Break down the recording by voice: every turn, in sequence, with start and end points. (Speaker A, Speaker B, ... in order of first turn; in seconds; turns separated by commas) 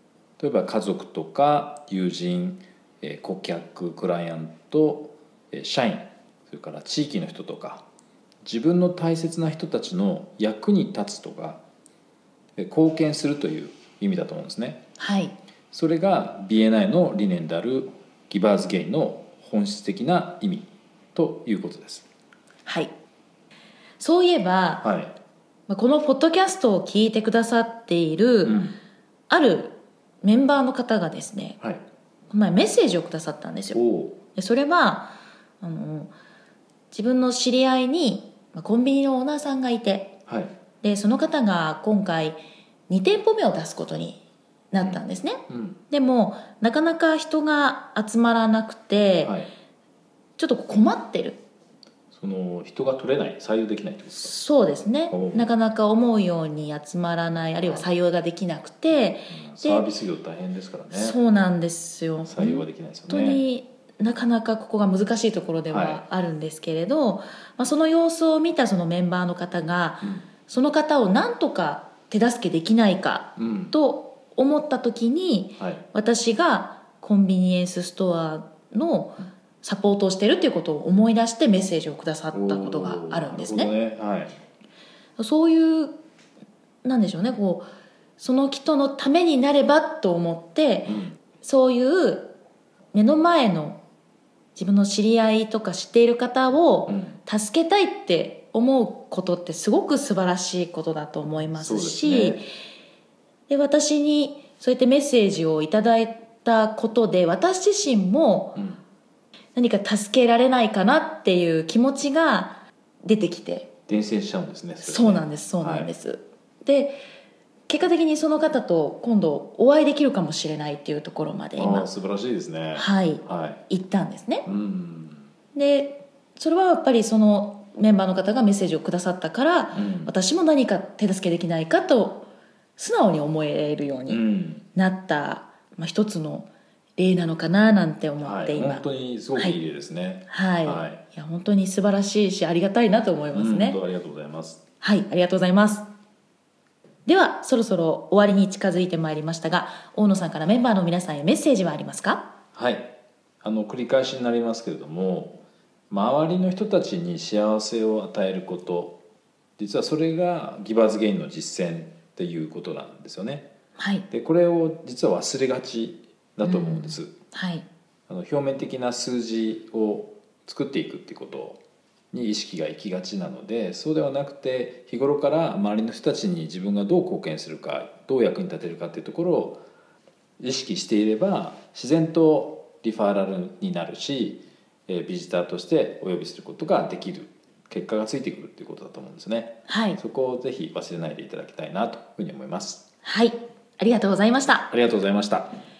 Speaker A: 0.4-7.8, Speaker A: 8.4-11.6, Speaker A: 12.6-14.8, Speaker B: 15.0-15.3, Speaker A: 15.7-22.1, Speaker B: 22.6-22.9, Speaker B: 24.0-24.8, Speaker A: 24.8-25.1, Speaker B: 25.7-28.6, Speaker A: 28.4-28.8, Speaker B: 29.3-31.6, Speaker B: 32.3-33.8, Speaker A: 33.7-34.2, Speaker B: 34.3-36.1, Speaker B: 36.9-40.1, Speaker A: 40.3-40.5, Speaker B: 40.8-44.2, Speaker B: 44.7-49.4, Speaker A: 44.8-45.8, Speaker A: 49.2-49.5, Speaker B: 50.4-51.4, Speaker A: 52.1-54.3, Speaker B: 54.1-59.9, Speaker A: 55.1-55.5, Speaker A: 59.3-61.2, Speaker B: 60.9-83.7, Speaker A: 62.2-63.4, Speaker A: 65.7-66.0, Speaker A: 70.0-70.3, Speaker A: 73.3-73.7, Speaker A: 75.6-75.8, Speaker A: 82.3-84.3, Speaker B: 85.2-86.0, Speaker B: 86.8-87.7, Speaker B: 88.2-92.3, Speaker A: 90.8-91.2, Speaker B: 92.9-93.8, Speaker B: 94.5-102.4, Speaker A: 96.9-97.2, Speaker A: 101.5-102.4, Speaker B: 103.5-108.6, Speaker A: 108.5-108.8, Speaker B: 109.5-113.7, Speaker A: 113.9-115.9, Speaker B: 114.8-117.0, Speaker B: 117.7-121.9, Speaker A: 121.5-123.6, Speaker B: 122.7-124.5, Speaker A: 124.4-125.3, Speaker B: 125.5-134.2, Speaker A: 129.7-130.1, Speaker A: 134.1-134.7, Speaker B: 134.7-138.8, Speaker A: 138.2-141.0, Speaker B: 140.3-143.8, Speaker A: 143.3-144.6, Speaker B: 144.8-145.9, Speaker B: 147.1-152.2, Speaker A: 152.5-159.0, Speaker A: 159.6-163.5, Speaker B: 163.8-164.1, Speaker A: 164.1-167.1, Speaker B: 166.4-167.7, Speaker A: 168.1-171.6, Speaker A: 172.1-179.6, Speaker A: 180.4-192.8, Speaker B: 189.7-190.0, Speaker B: 193.0-194.7, Speaker A: 194.7-195.5